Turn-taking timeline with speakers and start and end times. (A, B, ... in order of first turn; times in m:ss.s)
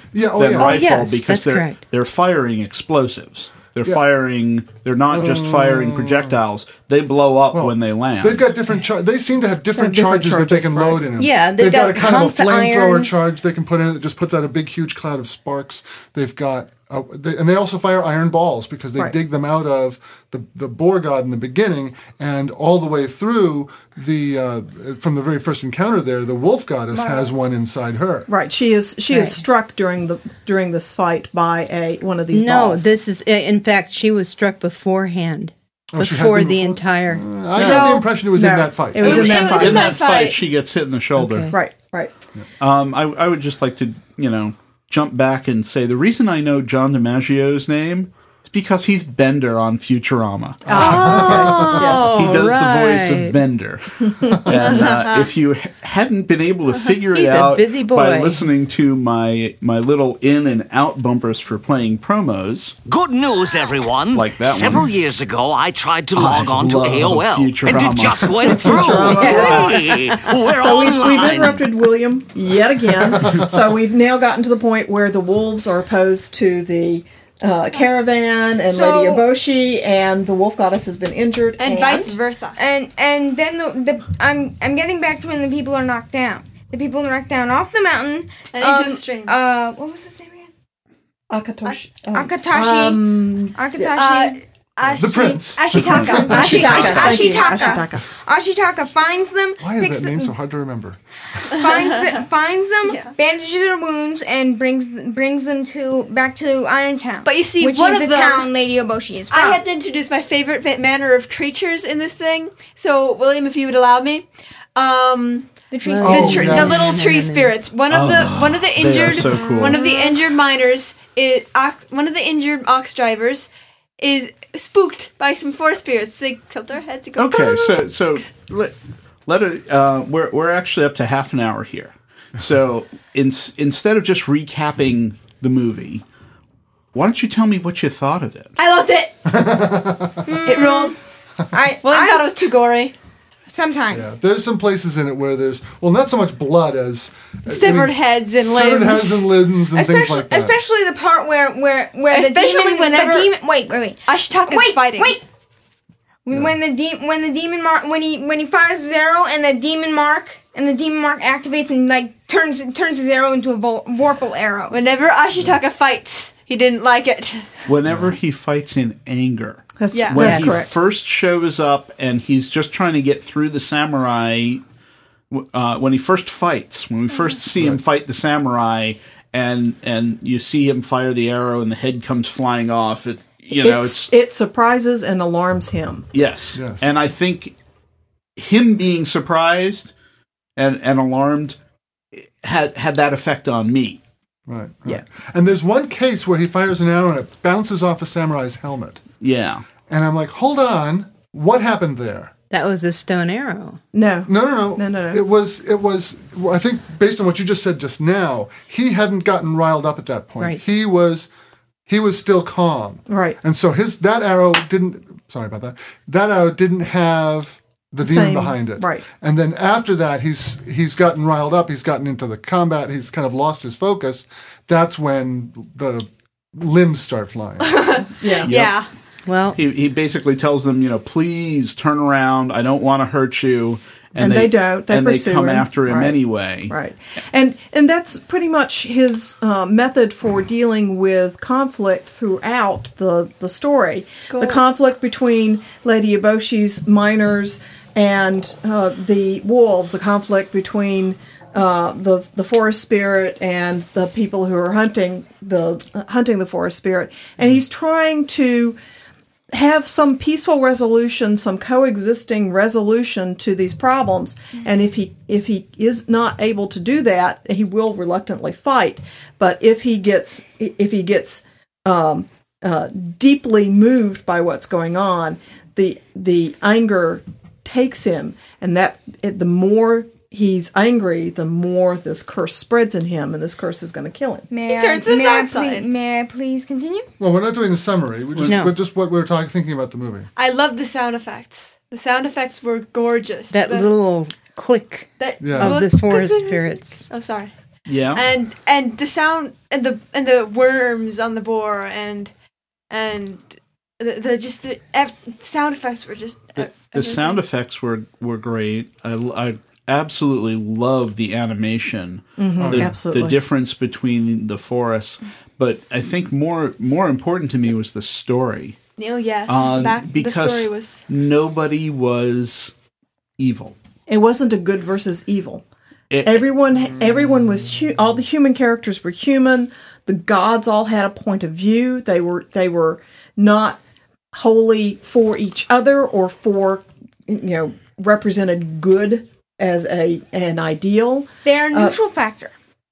0:00.1-0:00.9 A
0:00.4-0:08.4 B
0:00.5-0:01.8 C
0:05.1-0:06.4 A
0:07.5-0:28.3 A
0:09.7-0:11.1 D
0:11.2-0:13.1 C
0:28.3-0:32.9 D
0:29.1-0:29.4 C
0:32.3-0:37.2 C
0:35.9-0:39.6 A
0:37.6-0:37.9 B
0:37.6-0:40.0 D
0:38.9-0:40.4 E
0:39.0-0:41.5 B
0:41.2-0:41.6 C
0:41.5-0:42.1 D
0:42.6-0:50.6 B
0:50.6-0:51.9 A
0:50.7-0:53.4 C
0:50.7-0:52.2 D
0:52.0-1:02.8 B
0:54.0-0:54.8 D
0:54.7-0:55.3 E
0:57.1-0:58.4 C
1:02.9-1:11.6 F
1:04.1-1:04.9 B
1:06.1-1:09.6 B
1:08.6-1:09.8 D
1:09.1-1:10.4 C
1:10.5-1:22.2 D
1:13.0-1:13.6 A
1:18.7-1:19.2 G
1:21.6-1:22.6 E
1:22.6-1:30.5 G
1:28.5-1:29.4 E
1:31.3-1:33.9 D
1:32.1-1:34.4 G
1:33.8-1:37.8 E
1:34.8-1:37.4 A
1:36.3-1:38.0 D
1:36.4-1:40.3 G
1:39.6-1:41.0 A
1:41.5-1:49.6 G
1:41.6-1:42.2 E
1:42.8-1:43.1 E
1:47.2-1:48.5 E
1:49.3-1:54.2 E
1:54.8-2:07.8 E
1:55.7-1:56.6 G
1:55.8-1:57.6 C
1:56.0-1:57.0 A
1:57.9-1:59.8 B
1:59.2-1:59.9 C
2:07.2-2:08.7 B
2:09.2-2:16.0 B
2:16.9-2:18.5 B
2:18.6-2:19.2 E
2:19.2-2:20.5 A
2:20.2-2:21.0 G
2:20.4-2:21.0 E
2:21.5-2:22.4 G
2:21.8-2:22.9 E
2:23.5-2:24.1 G
2:23.9-2:30.6 A
2:27.5-2:29.3 E
2:29.7-2:35.2 G
2:32.1-2:33.3 E
2:34.0-2:35.2 E
2:36.2-2:44.8 G
2:44.7-2:47.5 E
2:47.7-2:54.6 B
2:47.9-2:48.1 A
2:49.8-2:50.7 D
2:49.9-2:50.2 E
2:50.2-2:50.6 C
2:55.3-3:04.1 B
2:57.6-2:57.8 A
3:03.5-3:06.1 D
3:06.1-3:07.5 B
3:06.5-3:06.9 A
3:08.4-3:09.9 B
3:10.6-3:11.6 B
3:12.1-3:14.0 B
3:14.5-3:19.0 A
3:19.2-3:19.6 B
3:19.9-3:22.3 A
3:22.5-3:23.8 C
3:23.9-3:25.2 D
3:24.3-3:31.3 A
3:31.9-3:47.9 A
3:33.1-3:33.4 D
3:38.0-3:39.0 D
3:47.6-3:48.9 E
3:48.1-3:48.5 D
3:48.4-3:48.8 B
3:49.2-3:49.6 C
3:49.5-3:56.7 B
3:54.2-3:56.2 D
3:56.7-4:18.8 D
4:04.3-4:04.6 E
4:19.5-4:44.5 D
4:44.5-4:47.1 G
4:44.7-4:45.9 E
4:47.2-4:50.3 A
4:48.4-4:48.7 C
4:50.4-4:53.9 E
4:53.5-4:57.1 C
4:55.2-4:57.5 E
4:55.4-4:55.7 A
4:57.9-4:58.2 B
4:58.1-5:02.3 E
5:02.9-5:03.5 E
5:04.0-5:07.4 E
5:06.6-5:18.8 B
5:12.4-5:13.4 D
5:12.6-5:12.9 A
5:19.0-5:21.0 E
5:19.5-5:22.7 B
5:23.4-5:23.8 B
5:24.1-5:25.6 D
5:26.1-5:26.5 B
5:26.2-5:33.8 D
5:34.3-5:42.0 D
5:41.4-5:42.5 G